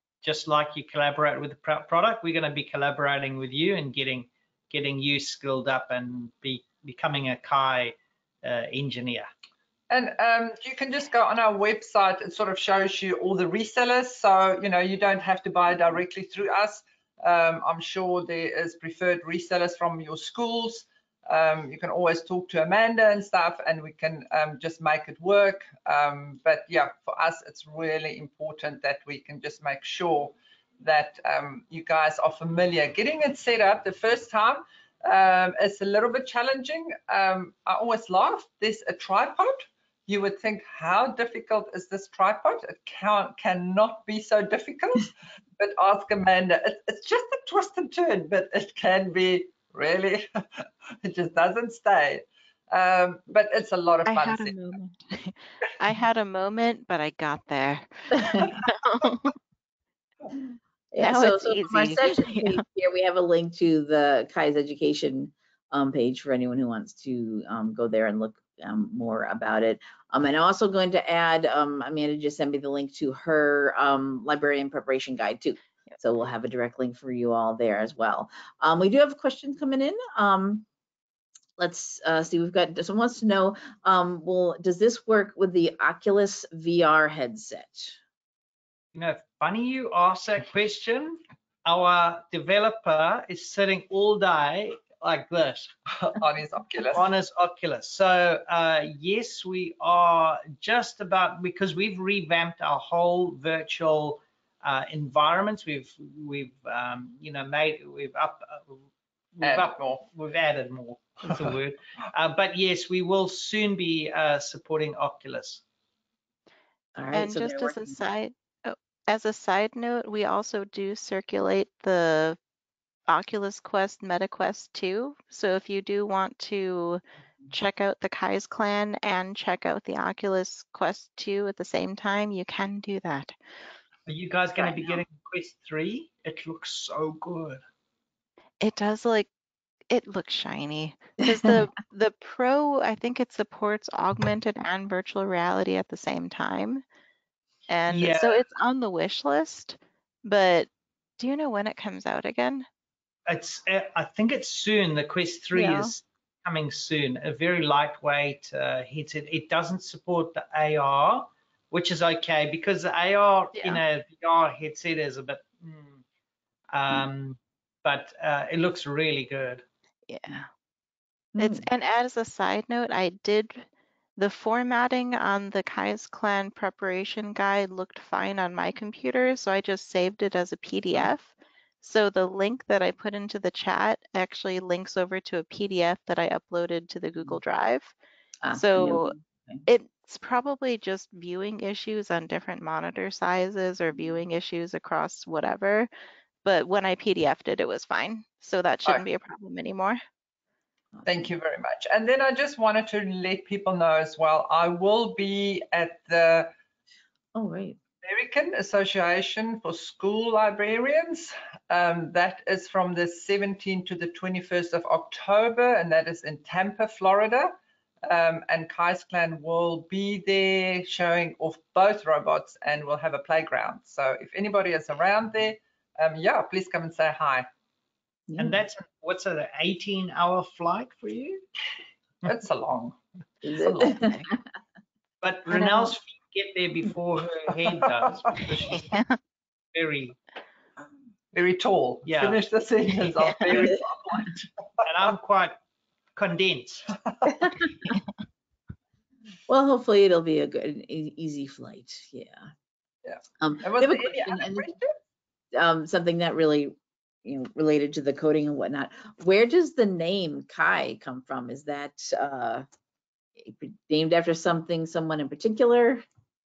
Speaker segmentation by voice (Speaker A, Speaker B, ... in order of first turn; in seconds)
Speaker A: 0.2-9.3, 88.9-95.7, 96.9-108.8, 109.3-115.6, 134.1-137.6, 147.9-148.4, 153.2-166.0, 166.7-169.6, 228.4-231.4, 235.2-239.0, 239.7-240.2, 242.1-242.4, 244.8-245.6, 246.2-246.9
Speaker B: 9.9-54.5, 95.9-97.1, 109.4-110.0, 201.0-206.5, 208.0-217.5, 218.0-227.5, 232.2-233.0, 233.6-234.0, 241.3-244.8, 247.1-247.4, 253.0-254.9
Speaker C: 54.0-59.3, 61.0-62.6, 117.1-122.4, 123.1-133.3, 138.6-139.3, 139.9-146.8, 147.7-152.7, 155.5-155.9, 163.6-163.8, 170.1-170.4, 171.4-187.9, 188.5-189.1, 189.7-195.9, 196.4-200.0, 233.9-234.3, 238.7-239.2, 243.2-243.7
Speaker D: 58.2-58.5, 60.9-80.7, 81.6-88.0, 116.9-118.0, 171.3-171.6, 188.4-189.6, 207.3-207.8, 228.3-228.6, 233.4-234.4, 235.5-235.9, 249.5-252.4, 253.4-254.7, 255.5-262.6, 263.4-266.0